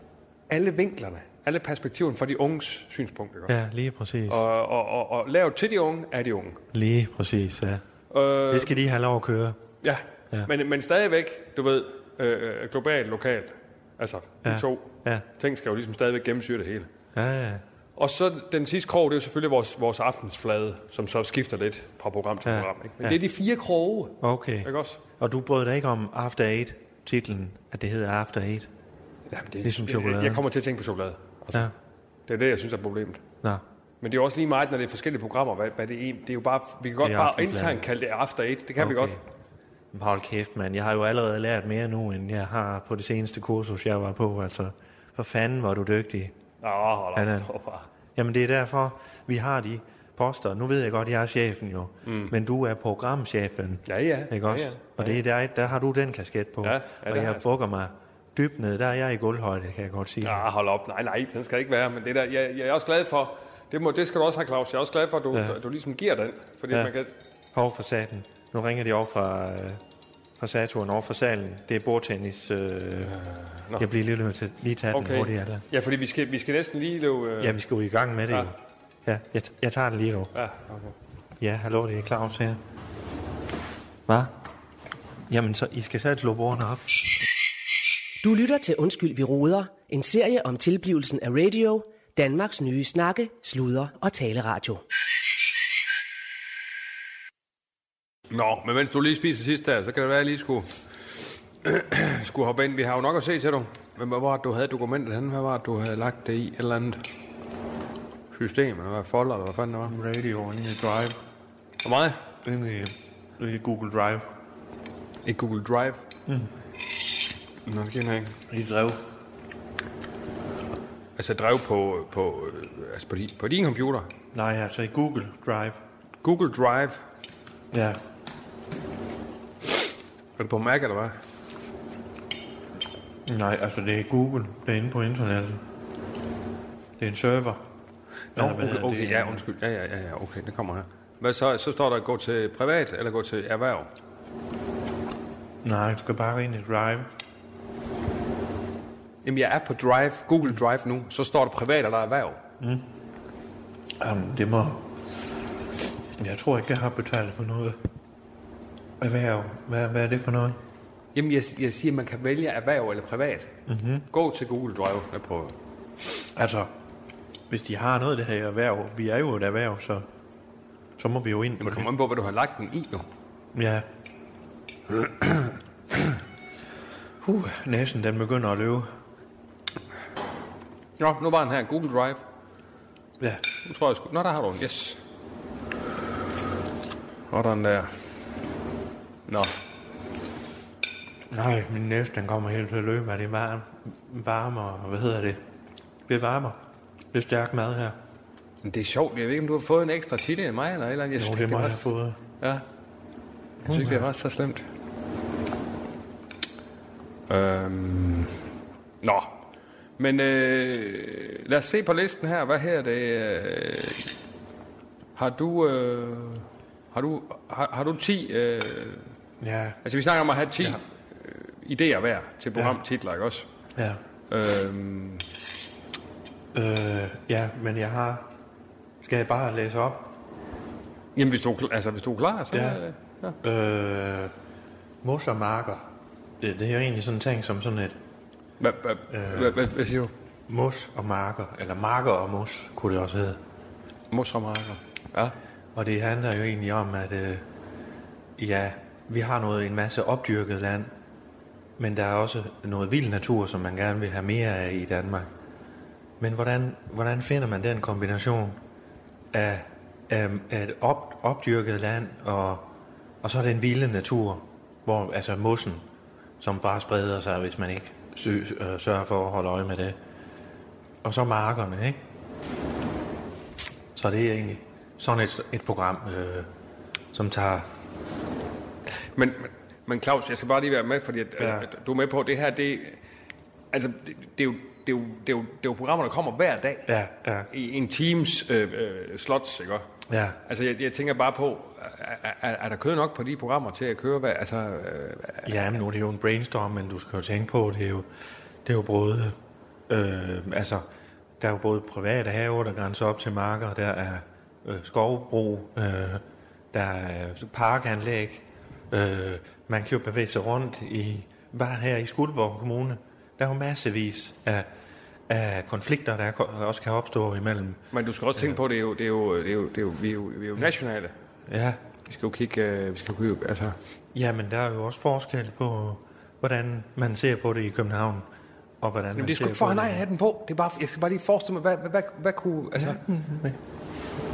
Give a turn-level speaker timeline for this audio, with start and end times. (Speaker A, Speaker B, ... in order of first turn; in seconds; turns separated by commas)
Speaker A: 0.5-3.5, Speaker B: 3.5-4.4, Speaker A: 4.3-6.6, Speaker B: 6.7-7.8, Speaker A: 8.1-8.7, Speaker B: 8.5-9.6, Speaker A: 9.8-16.9, Speaker B: 14.4-15.3, Speaker B: 17.1-17.6, Speaker A: 18.0-25.0, Speaker B: 22.4-23.2, Speaker B: 24.2-28.7, Speaker A: 29.3-31.7, Speaker B: 29.6-30.4, Speaker A: 32.3-33.2, Speaker A: 34.0-39.2, Speaker B: 37.0-37.8, Speaker B: 38.8-39.2, Speaker B: 39.9-46.3, Speaker A: 46.6-47.9, Speaker B: 47.1-47.5, Speaker B: 48.2-60.5, Speaker A: 52.1-52.3, Speaker A: 53.9-55.2, Speaker A: 56.6-57.4, Speaker A: 60.2-67.1, Speaker B: 67.5-69.8, Speaker B: 70.4-73.1, Speaker A: 73.1-73.8, Speaker B: 73.8-75.7, Speaker A: 74.9-77.6, Speaker B: 77.4-80.3, Speaker A: 80.3-81.0, Speaker B: 81.4-82.6, Speaker B: 84.1-84.3, Speaker B: 85.3-87.0, Speaker C: 88.2-94.8, Speaker A: 98.3-100.7, Speaker A: 101.6-107.0, Speaker A: 108.3-109.9, Speaker B: 109.9-111.2, Speaker A: 111.8-112.2, Speaker B: 112.4-114.3, Speaker A: 115.2-116.0, Speaker A: 117.7-118.4, Speaker B: 118.5-119.0, Speaker A: 121.2-124.1, Speaker B: 124.3-125.8, Speaker A: 126.2-127.0, Speaker B: 127.7-128.0, Speaker A: 130.4-131.2, Speaker B: 133.3-135.6, Speaker B: 137.0-137.6, Speaker A: 138.3-143.9, Speaker B: 138.4-139.4, Speaker B: 145.6-147.1, Speaker A: 149.2-152.4, Speaker B: 152.6-152.9, Speaker B: 154.0-154.8, Speaker B: 156.2-157.8, Speaker B: 159.0-160.6, Speaker A: 161.2-163.5, Speaker B: 163.7-164.1, Speaker A: 164.1-165.6, Speaker B: 166.3-166.7, Speaker B: 167.5-170.1, Speaker B: 171.0-171.9, Speaker A: 171.6-173.1, Speaker B: 173.5-173.9, Speaker B: 177.2-178.9, Speaker A: 181.0-182.2, Speaker A: 183.6-185.0, Speaker A: 187.3-187.9, Speaker A: 189.3-189.6, Speaker B: 191.3-195.4, Speaker B: 196.1-196.6, Speaker B: 197.1-198.0, Speaker A: 198.6-201.9, Speaker B: 201.2-202.2, Speaker A: 203.6-204.6, Speaker B: 203.7-204.0, Speaker A: 207.3-208.4, Speaker A: 209.0-209.4, Speaker A: 210.0-214.1, Speaker A: 215.2-219.1, Speaker B: 219.4-219.8, Speaker A: 219.8-223.5, Speaker B: 223.8-224.0, Speaker A: 224.3-225.3, Speaker B: 226.5-228.3, Speaker B: 229.0-230.1, Speaker A: 231.2-233.4, Speaker B: 232.5-232.8, Speaker B: 233.4-234.3, Speaker B: 235.0-235.8, Speaker B: 236.4-238.0, Speaker A: 238.6-240.1, Speaker B: 239.1-239.6, Speaker B: 240.5-243.4, Speaker A: 244.1-245.4, Speaker B: 245.8-247.4, Speaker B: 248.4-250.9, Speaker B: 251.8-255.3, Speaker B: 256.2-258.6, Speaker B: 259.3-262.6, Speaker B: 263.2-265.8, Speaker B: 266.4-270.0, Speaker B: 271.0-272.0, Speaker B: 273.9-276.5, Speaker B: 277.1-277.6, Speaker A: 279.1-283.0, Speaker A: 283.7-286.9, Speaker B: 286.9-287.5, Speaker A: 287.5-289.9, Speaker B: 290.1-290.4, Speaker A: 290.5-295.7, Speaker B: 295.5-298.1, Speaker B: 298.6-299.4, Speaker B: 299.9-300.8, Speaker B: 301.4-306.2, Speaker B: 306.7-314.7, Speaker B: 315.3-317.8, Speaker A: 317.9-321.1, Speaker B: 321.5-321.8, Speaker A: 322.1-323.8, Speaker B: 324.1-328.2, Speaker B: 328.8-330.0, Speaker A: 329.2-333.0, Speaker B: 332.8-333.6